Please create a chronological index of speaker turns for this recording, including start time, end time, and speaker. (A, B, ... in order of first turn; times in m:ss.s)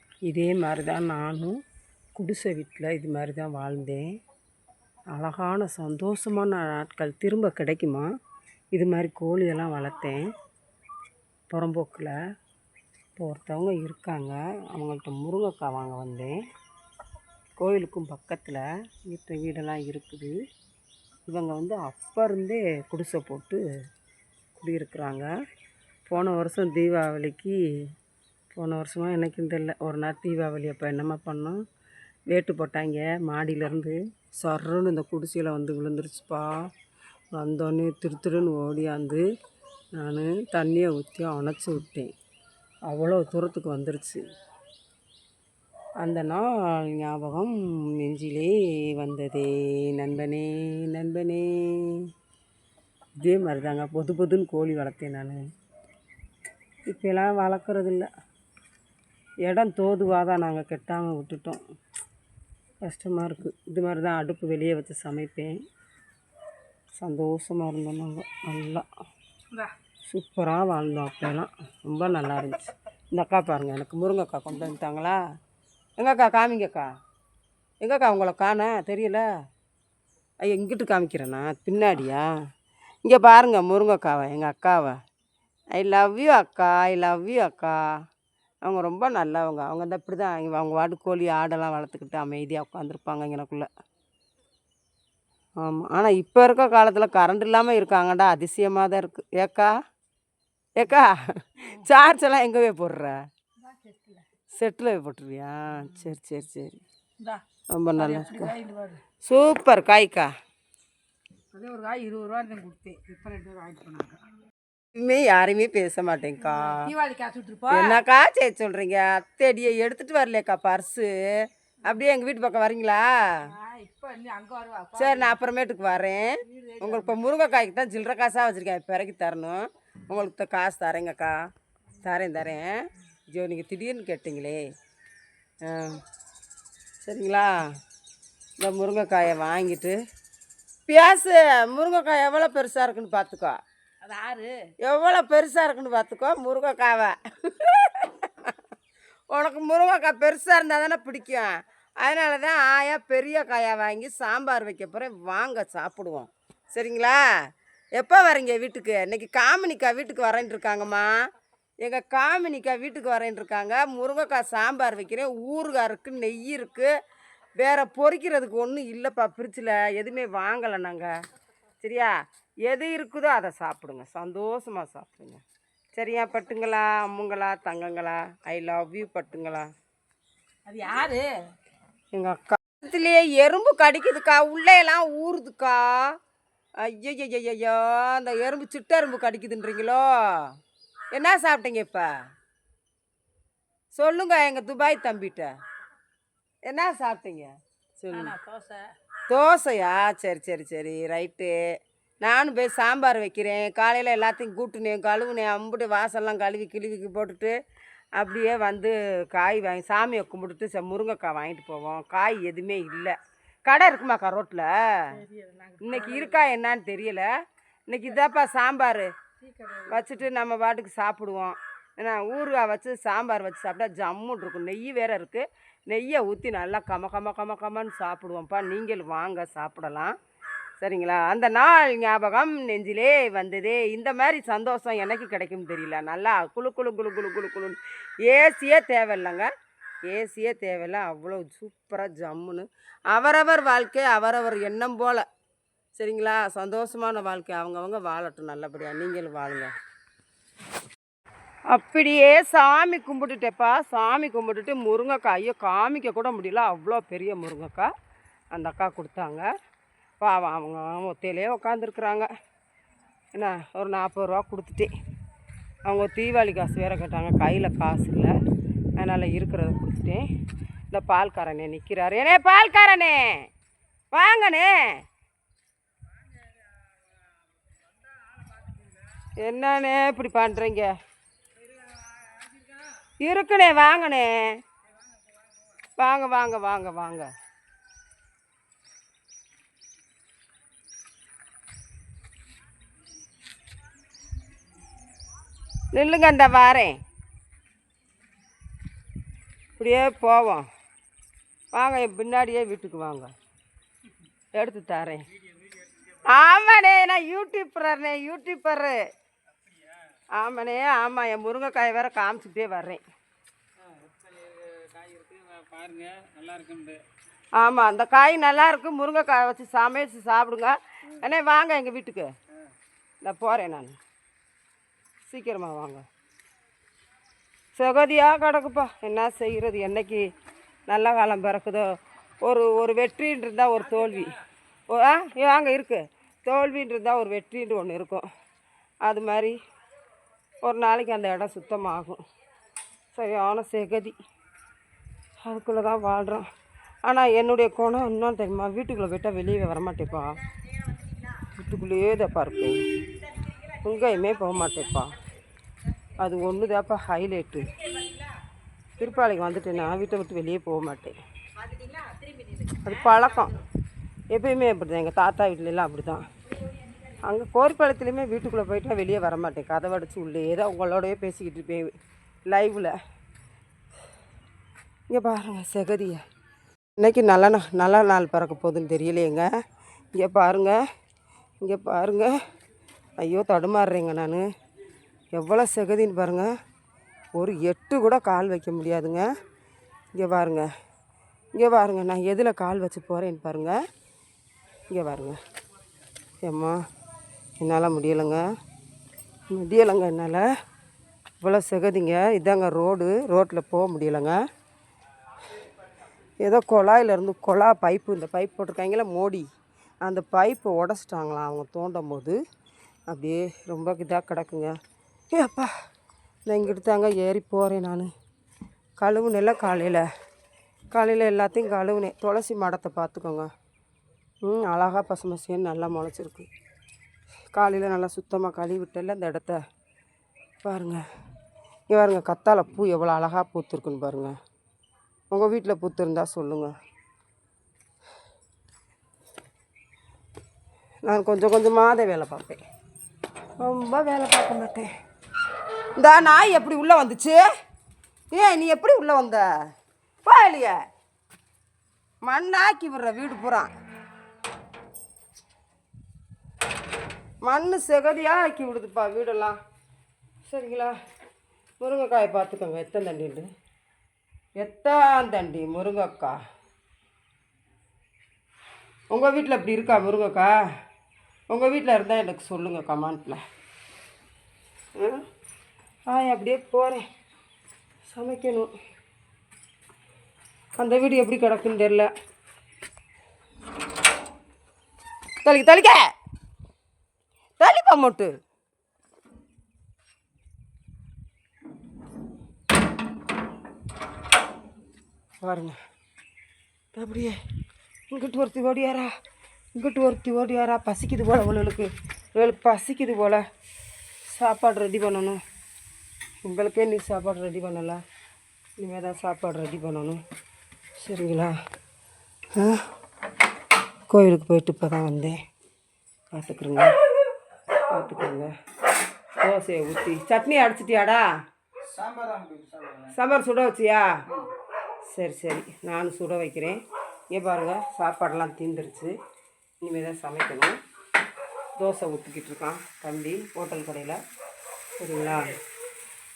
0:00.3-0:01.6 A
0:02.2-0:04.1 A
0:05.1-0:08.1 A
0:08.7-0:10.3 A
0:11.5-0:12.2 A
0:13.2-0:16.4 A
0:17.6-0:20.3 A
0:21.2-0:23.6 A
0:24.6-0:25.3 A
0:26.0-0:27.6 A
0:28.6-0:31.6 A
0:32.3-0:36.6 A
0:37.3-0:39.2 A
0:39.9-0:42.1 A
0:42.9-0:44.2 A
0:46.0-0:52.1 A
0:53.2-0:55.4 A
0:56.9-0:58.1 A
0:59.4-1:01.6 A
1:02.8-1:05.6 A
1:07.0-1:08.8 A
1:10.1-1:15.2 A
1:16.0-1:16.9 A
1:17.8-1:19.3 A
1:20.4-1:22.3 A
1:23.0-1:25.0 A
1:25.7-1:27.8 A
1:28.6-1:33.7 A
1:35.6-1:39.8 A
1:40.8-1:43.2 A
1:43.6-1:44.2 B
1:44.5-1:46.8 A
1:47.7-1:48.6 A
1:48.0-1:49.0 B
1:49.2-1:50.3 A
1:51.5-1:54.2 B
1:54.9-1:57.0 A
1:56.5-1:58.0 B
1:57.7-2:03.5 A
2:03.4-2:05.4 B
2:05.0-2:11.4 A
2:06.5-2:07.2 B
2:12.0-2:14.7 A
2:15.6-2:16.0 A
2:17.0-2:17.6 A
2:18.6-2:20.0 A
2:20.9-2:23.6 A
2:24.0-2:24.7 B
2:24.8-2:28.6 A
2:29.3-2:37.2 A
2:38.0-2:41.1 A
2:41.8-2:46.9 A
2:47.6-2:51.1 A
2:51.8-2:55.4 A
2:56.0-2:59.7 A
3:00.7-3:01.4 B
3:02.1-3:06.2 A
3:06.8-3:10.5 A
3:11.1-3:12.1 A
3:13.9-3:15.5 A
3:16.7-3:18.3 A
3:18.1-3:18.9 B
3:19.3-3:21.5 A
3:22.2-3:27.5 A
3:28.2-3:35.2 A
3:35.1-3:36.4 B
3:35.8-3:37.3 A
3:37.9-3:39.1 A
3:39.4-3:40.1 B
3:39.8-3:50.1 A
3:50.8-3:59.5 A
4:00.1-4:05.2 A
4:06.0-4:09.7 A
4:11.7-4:17.9 A
4:18.5-4:19.5 A
4:20.2-4:22.3 A
4:23.4-4:24.9 A
4:25.8-4:28.3 A
4:29.0-4:30.3 A
4:30.9-4:33.5 A
4:34.1-4:35.0 A
4:38.3-4:38.7 B
4:39.4-4:40.9 A
4:43.2-4:44.6 A
4:46.0-4:47.3 A
4:55.9-4:57.0 A
4:59.8-5:00.7 A
5:01.8-5:03.3 A
5:04.6-5:05.2 A
5:06.1-5:09.1 A
5:10.4-5:13.0 A
5:13.9-5:17.0 B
5:17.6-5:22.3 A
5:23.2-5:24.0 A
5:25.3-5:26.0 A
5:27.8-5:30.3 A
5:30.9-5:34.4 A
5:34.9-5:38.3 A
5:39.0-5:39.6 A
5:40.6-5:42.2 A
5:43.1-5:44.2 A
5:45.4-5:46.5 A
5:47.0-5:50.4 A
5:51.3-5:52.8 A
5:53.7-5:55.2 A
5:56.2-5:58.0 A
5:59.0-6:01.2 A
6:02.6-6:03.7 A
6:04.3-6:06.3 A
6:07.1-6:12.0 A
6:12.5-6:13.0 A
6:15.1-6:16.2 A
6:17.0-6:19.5 A
6:20.2-6:20.8 A
6:21.6-6:22.4 A
6:23.2-6:24.5 A
6:25.3-6:26.5 A
6:27.4-6:29.3 A
6:30.2-6:30.7 A
6:31.6-6:33.8 A
6:34.9-6:35.4 A
6:36.4-6:36.8 A
6:37.6-6:38.4 A
6:39.5-6:40.5 A
6:41.4-6:44.4 A
6:46.4-6:49.5 A
6:50.0-6:52.4 A
6:53.1-6:54.8 A
6:55.3-6:55.7 A
6:56.5-6:58.1 A
6:59.0-7:00.1 A
7:00.9-7:03.5 A
7:04.4-7:06.5 A
7:07.5-7:09.6 A
7:10.6-7:11.1 A
7:11.9-7:14.4 A
7:15.3-7:16.7 A
7:21.0-7:22.6 A
7:23.6-7:24.9 A
7:26.0-7:27.4 A
7:28.3-7:29.5 A
7:30.2-7:30.8 A
7:32.2-7:33.7 A
7:37.4-7:39.6 A
7:40.5-7:41.0 A
7:41.8-7:43.5 A
7:44.6-7:46.4 A
7:49.1-7:50.7 A
7:51.5-7:53.4 A
7:55.0-7:55.2 A
7:56.1-7:57.1 A
7:58.1-7:58.7 A
8:00.8-8:02.1 A
8:05.4-8:06.1 A
8:07.6-8:08.4 A
8:15.4-8:15.8 A
8:16.9-8:17.4 A
8:18.1-8:19.1 A
8:19.8-8:23.5 A
8:24.3-8:25.4 A
8:26.4-8:28.0 A
8:28.8-8:30.2 A
8:31.0-8:31.5 A
8:32.5-8:32.9 A
8:34.1-8:35.4 A
8:36.3-8:36.9 A
8:37.9-8:38.5 A
8:39.4-8:41.3 A
8:43.0-8:44.1 A
8:45.1-8:46.8 A
8:47.3-8:49.2 A
8:49.8-8:50.8 A
8:51.8-8:54.2 A
8:55.0-8:55.6 A